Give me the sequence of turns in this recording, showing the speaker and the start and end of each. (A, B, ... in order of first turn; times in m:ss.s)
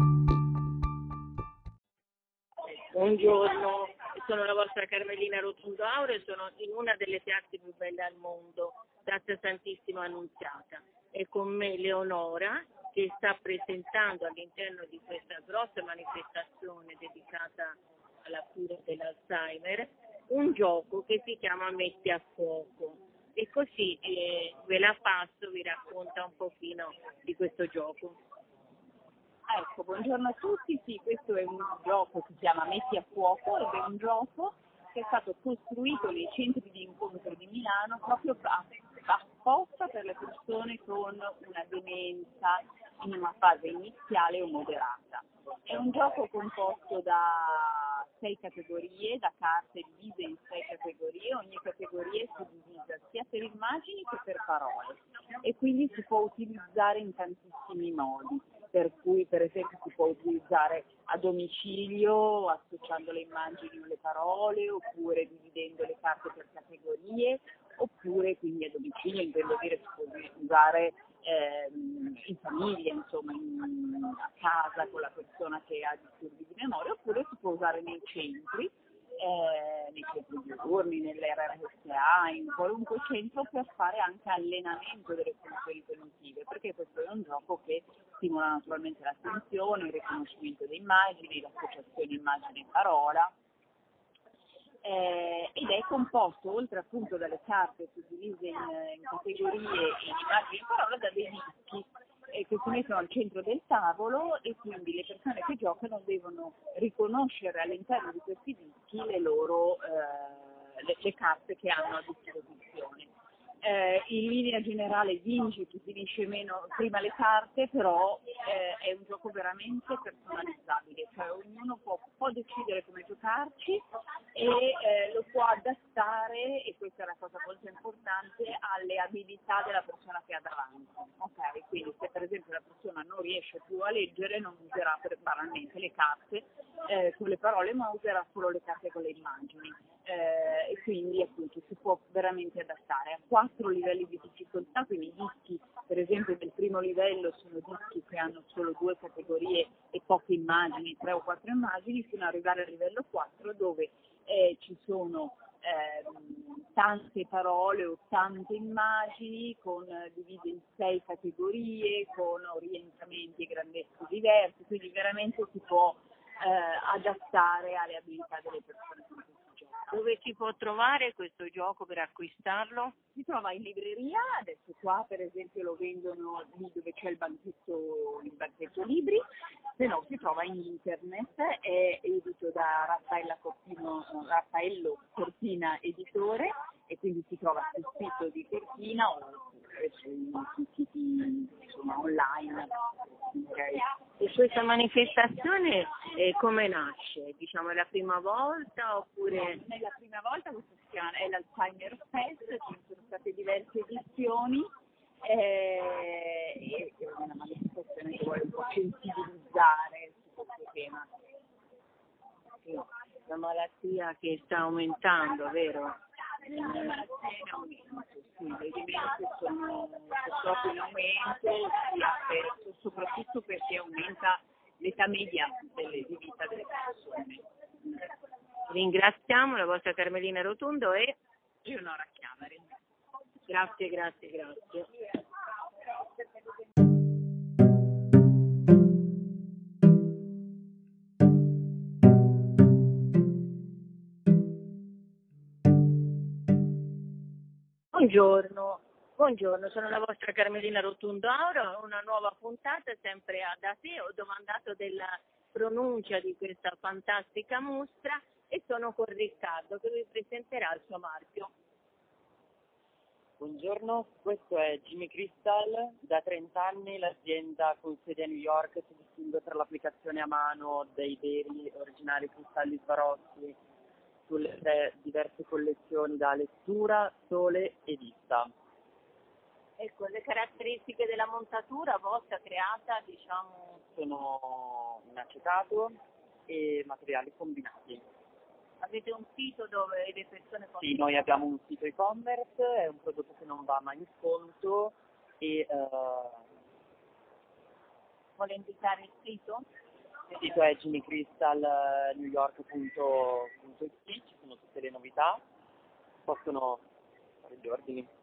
0:02.9-0:28.2 A
0:29.5-1:33.3 B
1:34.8-1:53.1 B
1:53.6-2:03.8 B
2:04.4-2:49.9 B
2:49.9-2:53.0 A
2:53.1-2:59.2 B
2:59.8-3:13.8 B
3:14.2-3:19.6 A
3:19.3-3:24.7 B
3:25.2-3:31.1 B
3:33.3-3:36.0 A
3:36.5-3:47.4 B
3:48.7-3:51.2 A
3:51.6-3:52.7 B
3:53.5-3:54.9 A
4:07.9-4:21.5 A
4:23.4-4:33.6 C
4:34.3-4:38.5 C
4:39.8-4:43.8 A
4:44.0-4:48.0 C
4:48.8-4:51.5 A
4:50.8-4:56.4 C
4:58.4-4:59.6 A
5:00.4-5:05.4 C
5:06.3-5:06.8 C
5:07.4-5:08.1 C